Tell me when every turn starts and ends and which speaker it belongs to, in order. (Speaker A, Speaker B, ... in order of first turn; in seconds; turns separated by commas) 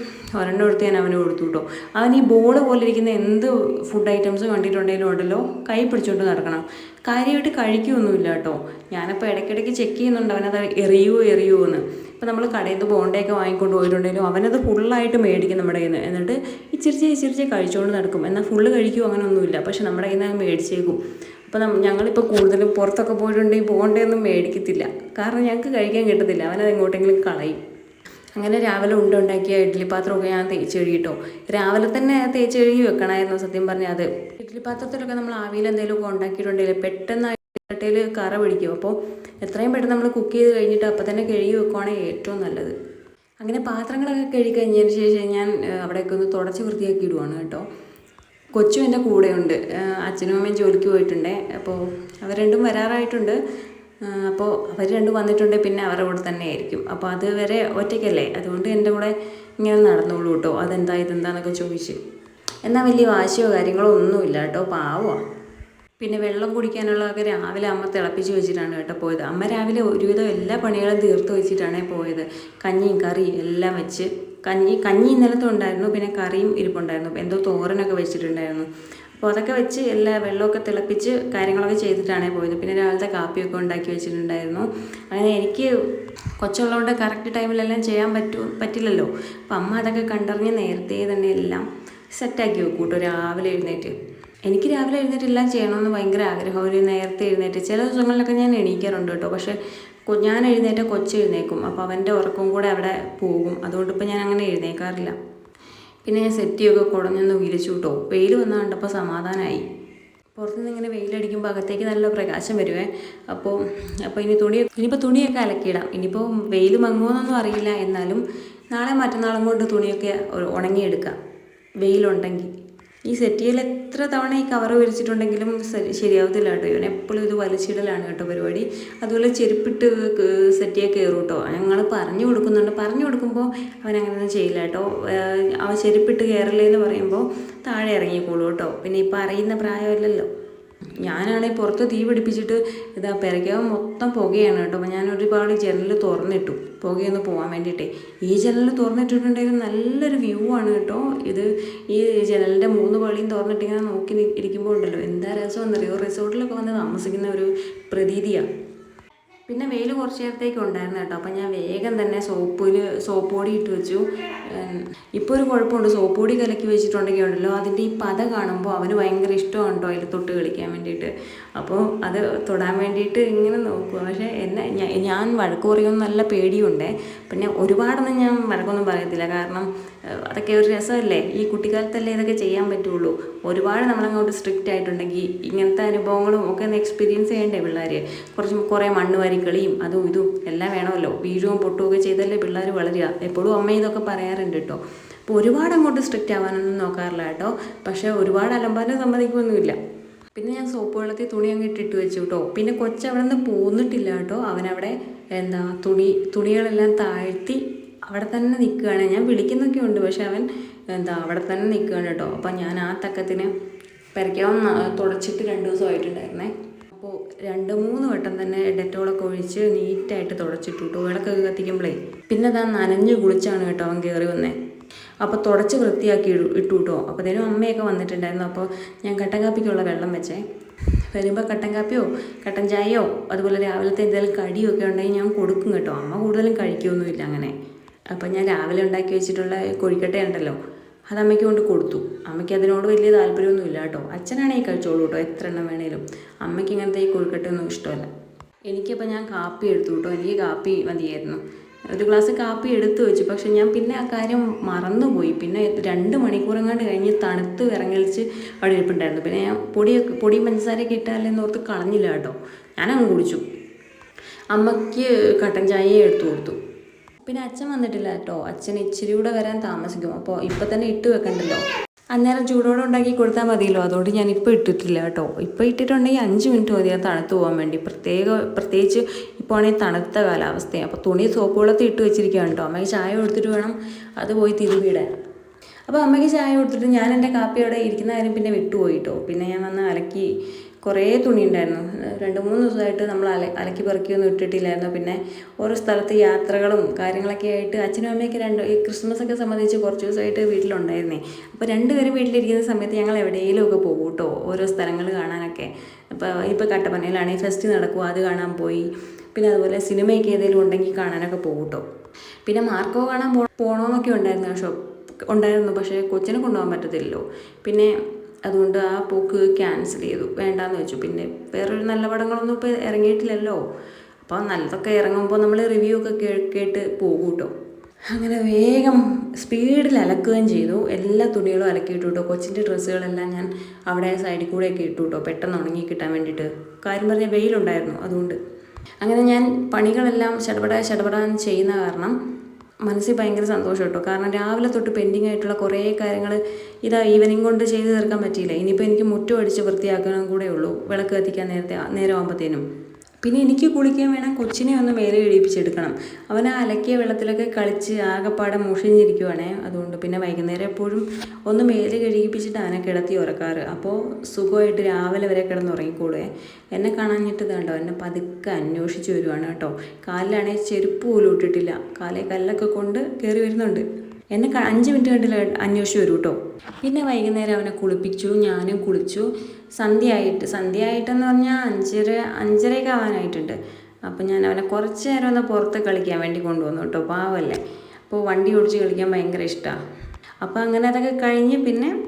Speaker A: 0.3-27.6, Speaker A: 28.4-42.8, Speaker A: 43.4-47.6, Speaker A: 48.6-53.4, Speaker A: 54.1-62.0, Speaker A: 62.6-65.2, Speaker A: 66.0-85.7, Speaker A: 86.4-105.2, Speaker A: 106.0-109.6, Speaker A: 110.4-121.2, Speaker A: 121.8-122.5, Speaker A: 123.0-140.3, Speaker A: 141.0-158.5, Speaker A: 159.5-199.8, Speaker A: 200.4-213.5, Speaker A: 214.2-224.6, Speaker A: 225.2-230.4, Speaker A: 231.1-237.6, Speaker A: 238.1-240.6, Speaker A: 241.1-248.1, Speaker A: 248.7-251.4, Speaker A: 251.9-263.4, Speaker A: 264.5-266.6, Speaker A: 267.2-271.6, Speaker A: 272.1-285.1, Speaker A: 285.9-290.3, Speaker A: 290.8-311.8, Speaker A: 312.4-317.9, Speaker A: 318.4-323.6, Speaker A: 324.2-327.5, Speaker A: 328.1-338.4, Speaker A: 339.0-342.2, Speaker A: 342.9-352.6, Speaker A: 353.2-389.8, Speaker A: 390.4-391.9